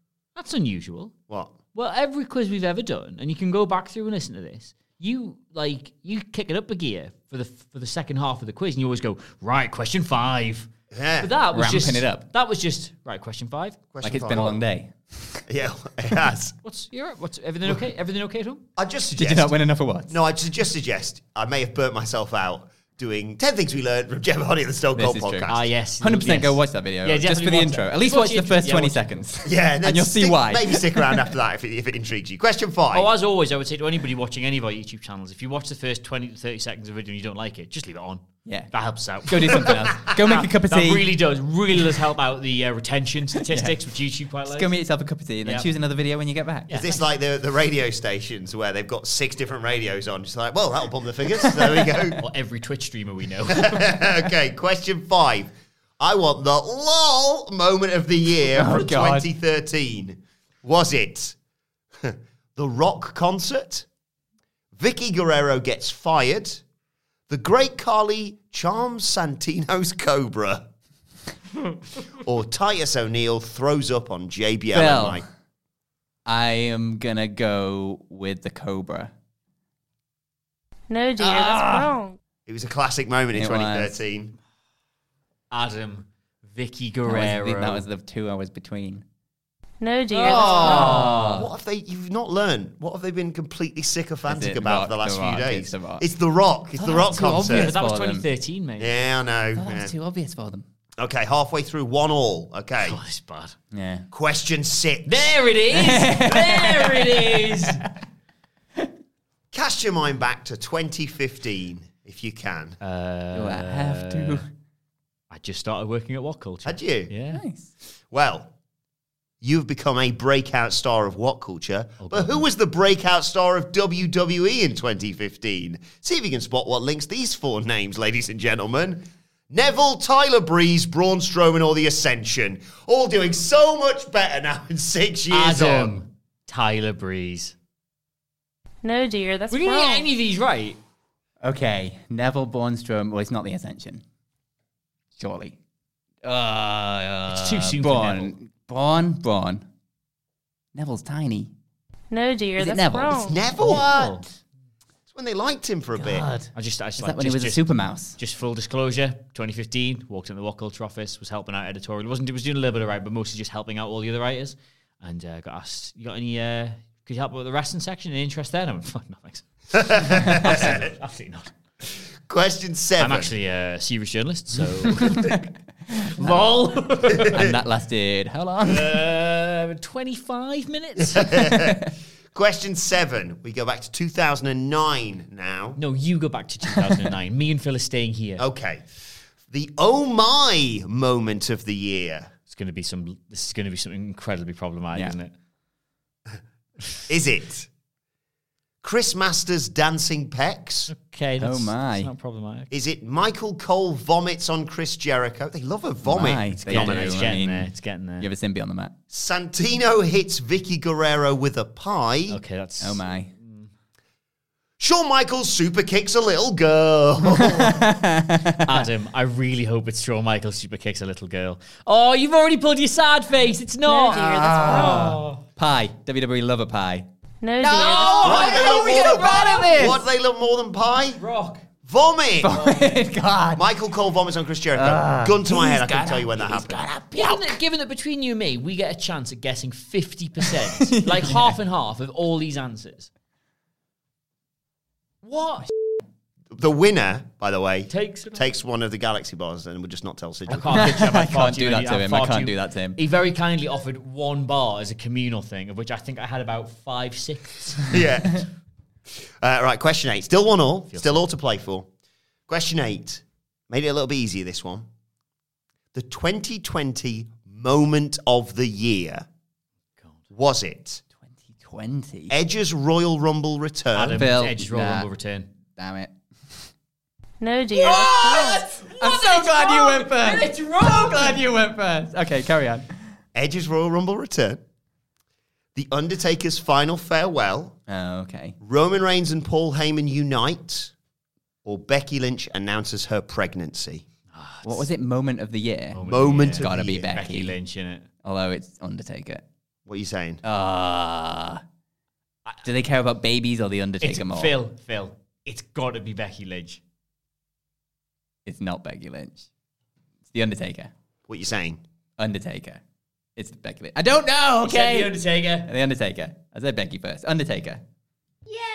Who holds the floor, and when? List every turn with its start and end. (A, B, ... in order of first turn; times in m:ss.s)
0:00.4-0:01.1 A
0:01.3-0:01.5 B
0:01.7-0:10.7 A
0:10.9-0:11.3 B
0:11.2-0:13.8 A
0:11.5-0:12.2 C
0:13.9-0:14.6 B
0:14.0-0:15.4 C
0:15.5-0:16.5 B
0:16.6-0:18.6 A
0:18.8-0:19.6 B
0:19.2-0:20.2 C
0:20.1-0:25.7 B
0:25.0-0:31.2 C
0:25.5-0:29.2 A
0:29.4-0:33.1 B
0:32.9-0:44.7 A
0:38.4-0:38.7 C
0:39.2-0:41.1 C
0:43.5-0:43.7 C
0:44.5-0:46.8 C
0:46.7-0:52.2 B
0:51.7-0:52.0 C
0:52.2-0:53.9 A
0:53.5-1:01.4 B
0:58.6-0:59.3 C
1:02.0-1:03.8 B
1:04.7-1:06.6 B
1:07.3-1:10.7 B
1:12.2-1:15.2 B
1:14.7-1:15.2 C
1:16.2-1:19.1 C
1:20.9-1:22.2 D
1:21.2-1:21.9 C
1:22.4-1:24.3 B
1:23.3-1:24.0 C
1:25.5-1:27.8 A
1:27.1-1:29.0 C
1:29.8-1:31.0 D
1:30.1-1:31.4 A
1:30.2-1:37.7 B
1:30.2-1:31.5 C
1:34.2-1:36.0 C
1:36.8-1:38.3 C
1:37.4-1:38.9 A
1:38.8-1:39.9 B
1:39.6-1:40.6 C
1:41.0-1:43.0 B
1:42.8-1:43.5 A
1:43.7-1:44.1 C
1:44.1-1:45.4 B
1:45.0-1:47.8 A
1:45.7-1:47.7 C
1:49.5-1:52.8 B
1:52.8-1:54.4 A
1:53.3-1:54.4 C
1:55.3-1:57.4 A
1:56.6-1:57.1 B
1:57.3-1:57.7 C
1:58.1-1:58.5 B
1:59.4-2:16.0 B
2:02.0-2:02.4 A
2:15.3-2:17.5 A
2:18.8-2:20.1 D
2:19.5-2:20.8 A
2:21.4-2:24.0 C
2:25.2-2:25.6 C
2:26.2-2:29.6 C
2:27.3-2:28.3 A
2:30.7-2:31.5 C
2:32.1-2:33.4 D
2:32.6-2:33.8 C
2:33.2-2:34.2 B
2:33.6-2:34.2 A
2:35.1-2:36.3 B
2:36.0-2:38.2 C
2:36.5-2:51.5 A
2:49.7-2:50.9 B
2:52.3-2:53.3 B
2:53.0-2:55.3 A
2:55.0-2:55.4 C
2:55.9-2:56.6 C
2:56.2-2:57.4 A
2:57.2-2:57.6 B
2:57.2-2:59.0 C
2:58.7-3:01.5 A
3:01.0-3:05.8 B
3:01.6-3:01.9 C
3:05.8-3:08.4 A
3:08.4-3:08.8 B
3:09.5-3:12.3 B
3:12.5-3:15.3 A
3:17.1-3:17.7 B
3:18.8-3:20.9 B
3:20.9-3:22.7 A
3:21.4-3:22.1 C
3:22.7-3:27.3 B
3:26.0-3:28.9 C
3:26.7-3:28.3 A
3:29.1-3:32.4 B
3:32.3-3:33.7 A
3:32.8-3:33.3 C
3:34.8-3:37.8 B
3:37.4-3:38.9 C
3:38.6-3:45.4 A
3:43.9-3:45.1 D
3:44.1-3:47.1 C
3:47.4-3:48.7 D
3:47.6-3:50.0 C
3:47.7-3:50.0 A
3:48.2-3:51.2 B
3:51.2-3:51.6 A
3:51.8-3:52.7 B
3:52.4-3:53.6 C
3:52.5-3:52.9 A
3:53.6-3:56.9 B
3:54.7-3:57.6 C
3:57.1-4:03.1 A
4:00.5-4:01.5 C
4:05.2-4:05.7 A
4:06.5-4:10.9 B
4:07.9-4:08.5 A
4:10.5-4:17.9 A
4:10.6-4:13.0 C
4:17.9-4:18.4 B
4:19.2-4:21.9 B
4:20.9-4:21.2 A
4:22.5-4:24.9 B
4:25.9-4:29.3 B
4:30.3-4:31.0 B
4:31.3-4:32.3 C
4:32.3-4:34.3 B
4:33.9-4:35.5 A
4:34.1-4:35.1 C
4:35.8-4:36.5 C
4:37.4-4:38.6 D
4:37.8-4:42.9 C
4:37.8-4:41.4 A
4:43.3-4:44.6 B
4:45.7-4:47.8 B
4:47.9-4:48.6 C
4:48.6-4:50.9 B
4:51.6-4:54.0 B
4:54.3-4:54.9 A
4:54.6-4:57.6 C
4:55.9-4:58.1 A
4:56.0-4:57.1 B
4:58.2-4:59.4 C
4:59.8-5:00.4 B
5:00.4-5:01.6 C
5:02.6-5:04.6 C
5:04.0-5:06.8 A
5:08.4-5:09.5 C
5:10.3-5:10.9 C
5:11.3-5:11.8 B
5:12.2-5:12.8 C
5:13.4-5:17.8 C
5:14.6-5:15.7 A